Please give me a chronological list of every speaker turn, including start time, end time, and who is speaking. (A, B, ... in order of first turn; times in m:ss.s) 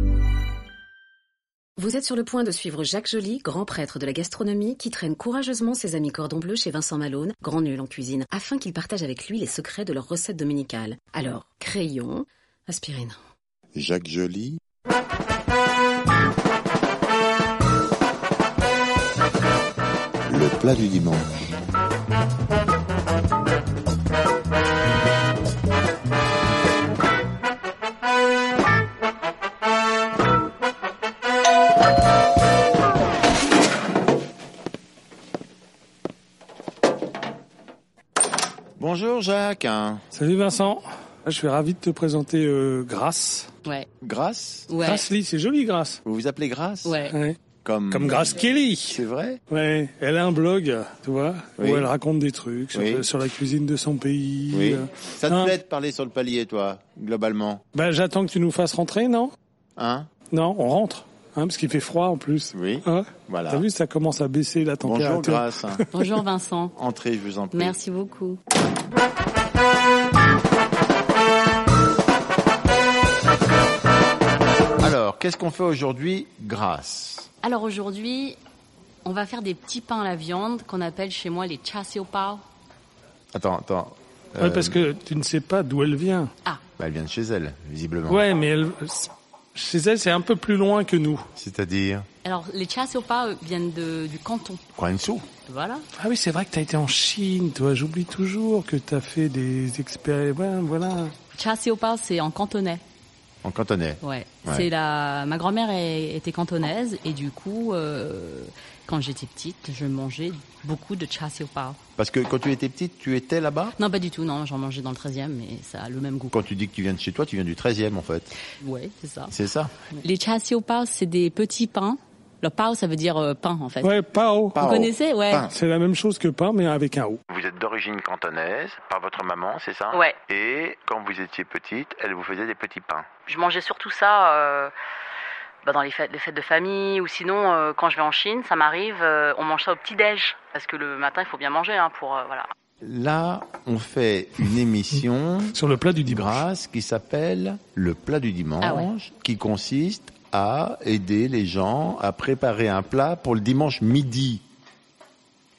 0:01.8-0:13.2 A
0:13.7-0:14.6 B
0:20.2-0:21.5 B
0:38.8-0:40.0 B
0:40.1-0:43.5 C
0:44.0-0:44.7 B
0:44.7-0:45.0 D
0:44.8-0:46.0 C
0:46.0-0:47.0 B
0:46.8-0:47.2 D
0:47.1-0:47.4 C
0:47.6-0:49.4 B
0:47.9-0:55.5 C
0:51.6-0:51.9 B
0:52.7-0:53.1 B
0:54.5-0:57.6 B
0:57.7-0:59.3 C
0:59.8-1:00.1 B
1:00.3-1:05.8 C
1:02.5-1:03.7 B
1:04.8-1:05.8 B
1:05.9-1:06.8 D
1:06.8-1:07.8 B
1:07.5-1:08.4 D
1:14.8-1:17.3 B
1:17.4-1:18.4 D
1:19.0-1:22.4 D
1:23.3-1:24.8 B
1:24.4-1:26.3 C
1:26.8-1:28.3 B
1:28.1-1:31.3 C
1:31.4-1:32.1 B
1:32.2-1:34.6 D
1:34.8-1:35.3 B
1:35.5-1:35.9 D
1:36.0-1:41.1 C
1:41.3-1:42.8 D
1:43.4-1:44.7 B
1:44.0-1:51.8 D
1:52.0-1:53.8 B
1:53.8-1:56.4 D
1:56.3-1:58.3 B
1:58.5-1:59.3 D
1:59.3-1:59.7 B
1:59.9-2:03.9 D
2:03.8-2:04.6 C
2:04.5-2:05.5 B
2:04.6-2:05.5 D
2:05.5-2:07.2 C
2:07.3-2:13.1 B
2:09.9-2:10.2 D
2:13.3-2:14.7 D
2:15.6-2:22.5 D
2:22.8-2:34.4 B
2:25.5-2:26.4 C
2:28.6-2:28.9 D